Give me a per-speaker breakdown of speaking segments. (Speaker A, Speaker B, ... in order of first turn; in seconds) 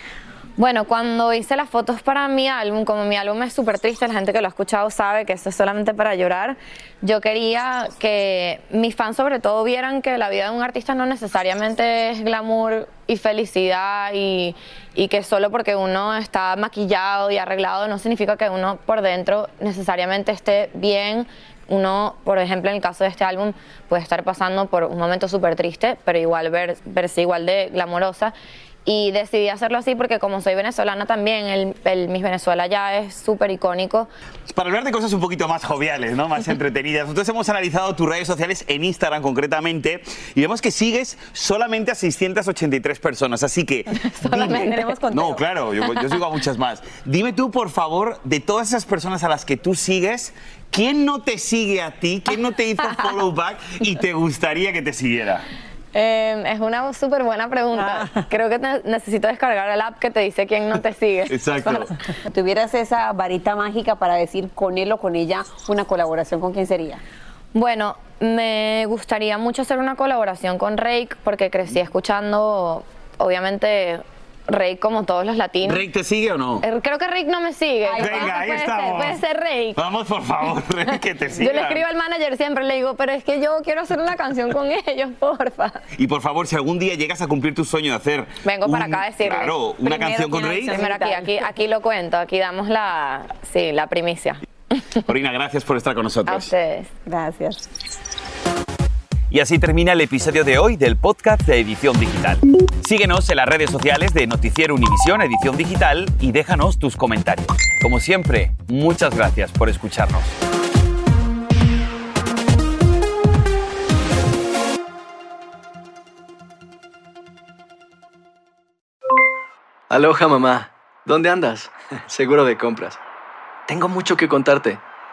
Speaker A: 0.6-28.3, 28.9-34.1, 44.2-44.7, 55.9-61.4, 67.5-75.8, 76.6-79.8, 81.4-85.8, 88.5-89.5, 90.7-94.4, 96.3-96.9
Speaker B: 34.5-55.5, 61.3-61.9, 75.6-76.7, 78.0-79.2, 79.8-81.8, 86.0-90.8, 95.0-96.5, 99.3-110.4
Speaker C: 44.1-45.4, 57.7-58.3, 62.2-67.0, 77.8-78.4, 89.8-91.4, 97.0-97.6
Speaker D: 119.9-123.0, 123.7-124.8